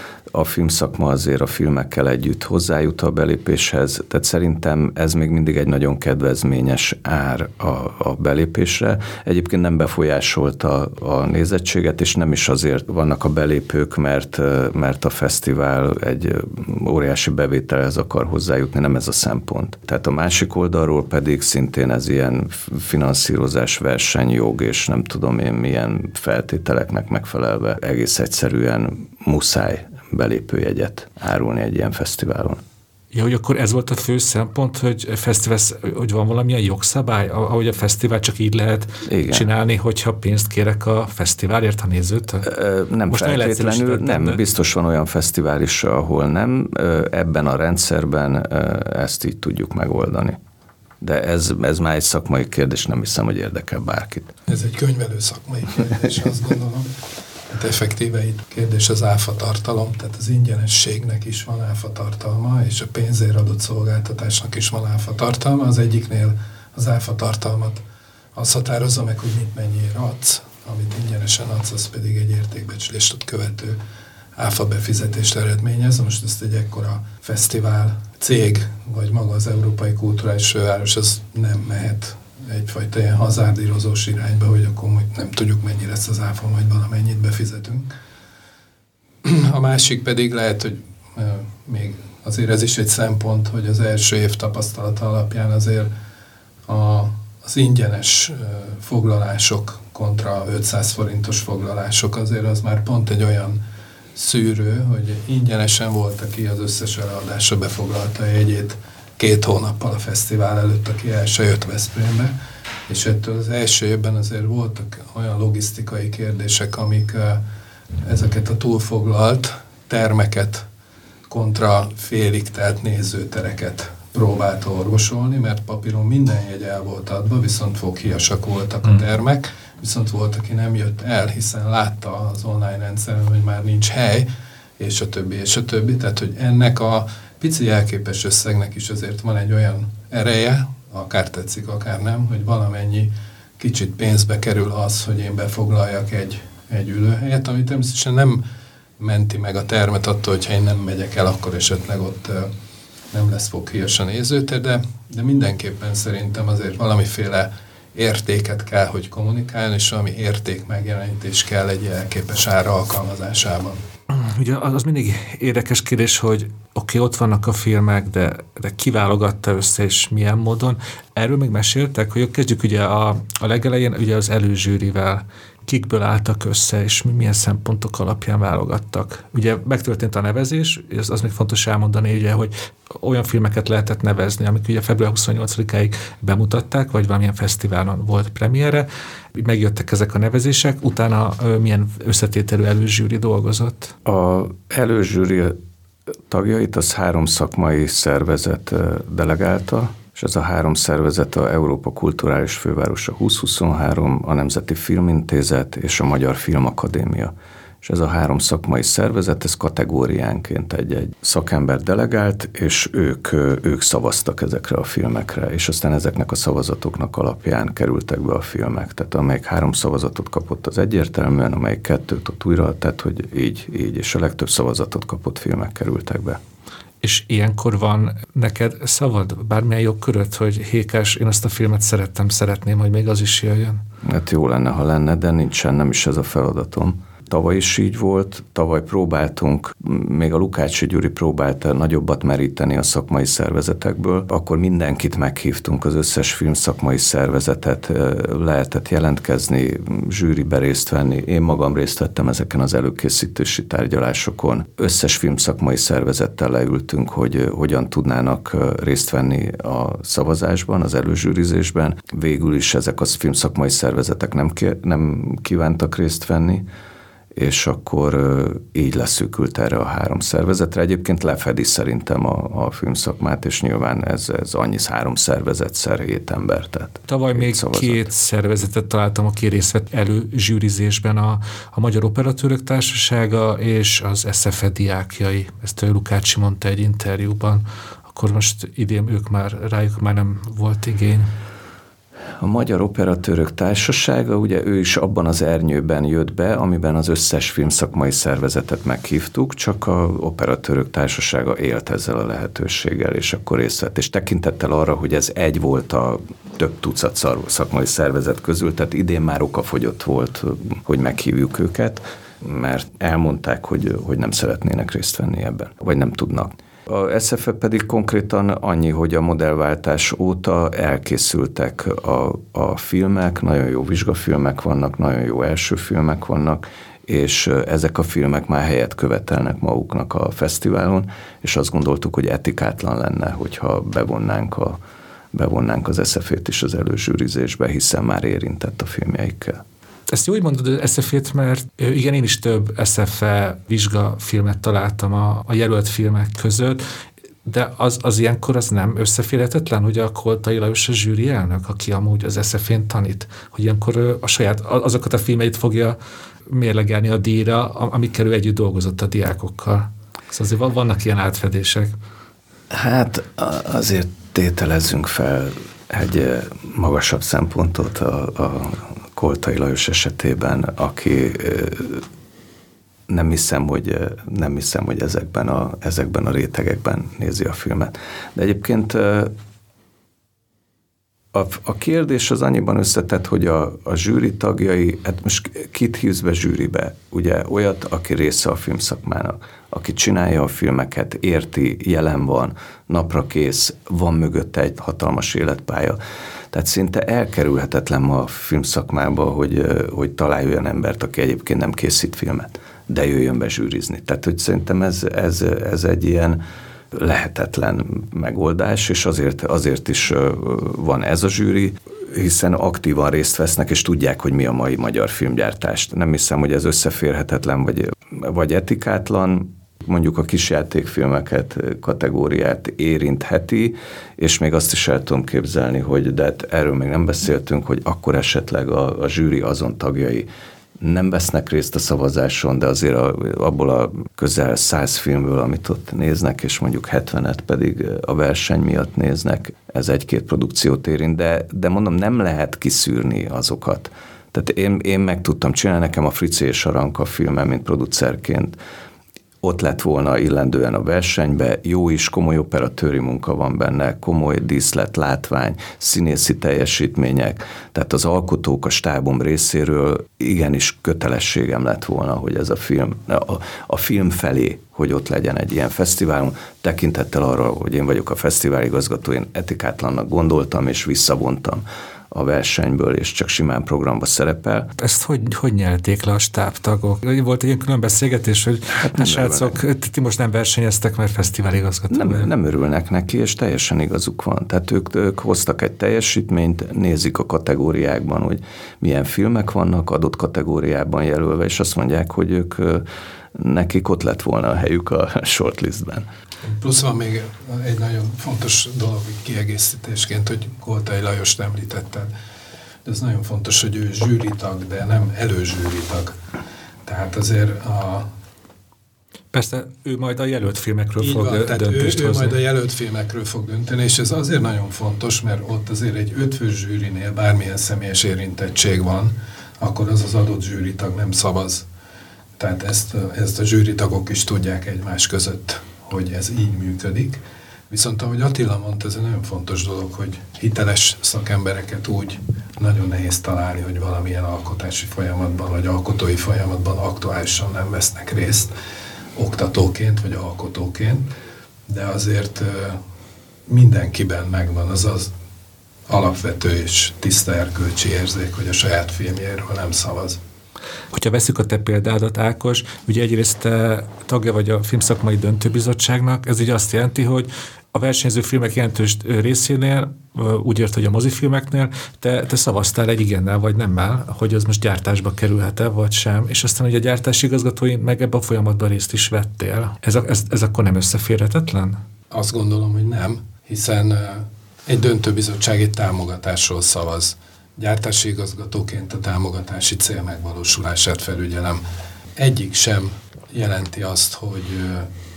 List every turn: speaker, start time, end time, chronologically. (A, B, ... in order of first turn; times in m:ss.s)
0:00.3-0:32.6 A
0:33.1-0:42.5 B
0:39.1-0:39.5 A
0:42.4-0:50.4 A
0:43.1-0:44.4 B
0:51.0-0:54.3 A
0:54.5-0:56.9 C
0:57.5-1:07.8 C
1:08.4-1:13.8 C
1:14.4-1:27.9 C
1:29.2-1:35.9 C
1:36.7-1:43.6 C
1:44.2-1:52.3 C
1:52.9-1:57.4 C
1:58.0-2:00.6 C
2:01.3-2:14.3 C
2:14.8-2:28.4 C
2:29.0-2:32.5 C
2:33.1-2:43.8 C
2:44.1-3:13.9 B
3:14.0-3:15.6 A
3:16.3-3:46.4 A
3:47.0-3:53.8 B
3:54.0-4:26.7 A
4:27.4-4:38.1 A
4:37.1-4:51.3 B
4:52.4-5:34.8 A
5:35.3-5:39.6 A
5:40.1-5:46.8 B
5:47.4-5:56.0 B
5:56.5-6:01.9 B
6:02.7-6:12.0 A
6:13.1-6:19.3 A
6:21.3-6:36.0 A
6:36.5-6:46.4 A
6:46.9-7:10.3 A
7:10.8-7:28.6 A
7:29.4-7:54.7 A
7:54.8-8:02.3 B
7:58.8-7:59.6 A
8:01.9-8:16.1 A
8:16.4-8:22.1 C
8:22.8-8:26.1 C
8:26.9-8:28.1 C
8:29.3-8:32.4 B
8:31.0-8:41.7 C
8:42.4-8:58.5 C
8:59.2-9:01.1 C
9:01.7-9:02.8 C
9:03.5-9:05.1 C
9:05.9-9:10.2 C
9:10.9-9:31.8 B
9:32.1-9:41.6 C
9:42.2-9:44.9 C